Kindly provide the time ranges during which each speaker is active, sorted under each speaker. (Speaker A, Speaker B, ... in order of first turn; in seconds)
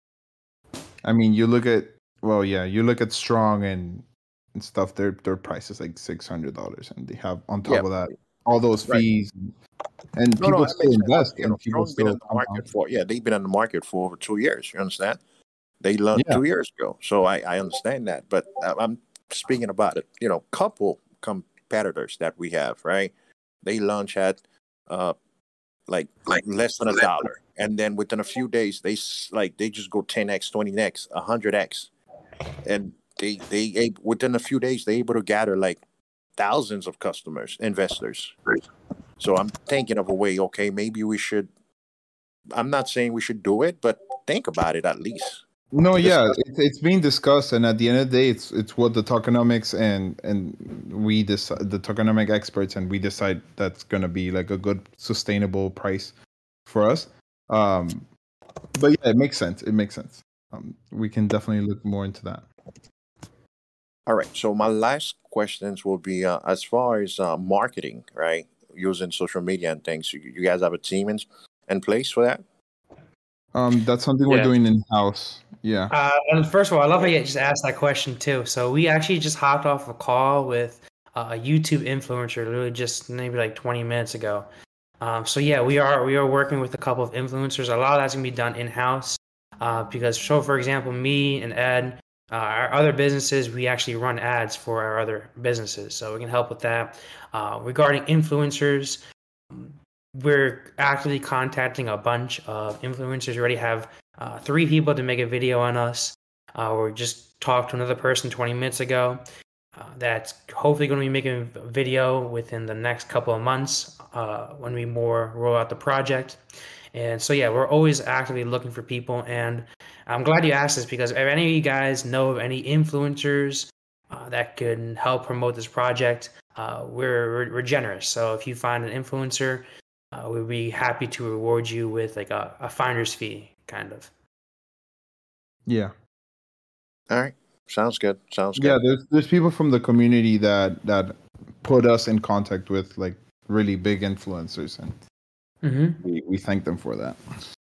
Speaker A: 1.0-9.5, 10.2-12.6, 16.1-16.4, 45.7-56.1, 56.7-58.1, 58.8-62.5, 73.5-75.9, 135.7-135.9, 138.6-145.0, 146.0-147.2
Speaker B: 7.6-7.9, 10.4-15.2, 15.8-23.1, 23.6-25.1, 25.9-31.9, 32.6-35.8, 36.4-38.4, 39.2-41.5, 42.5-45.4, 46.0-46.4, 64.1-72.4, 137.1-138.8
Speaker C: 75.9-84.5, 85.0-99.0, 99.5-109.2, 109.7-116.4, 116.9-134.1, 145.6-146.0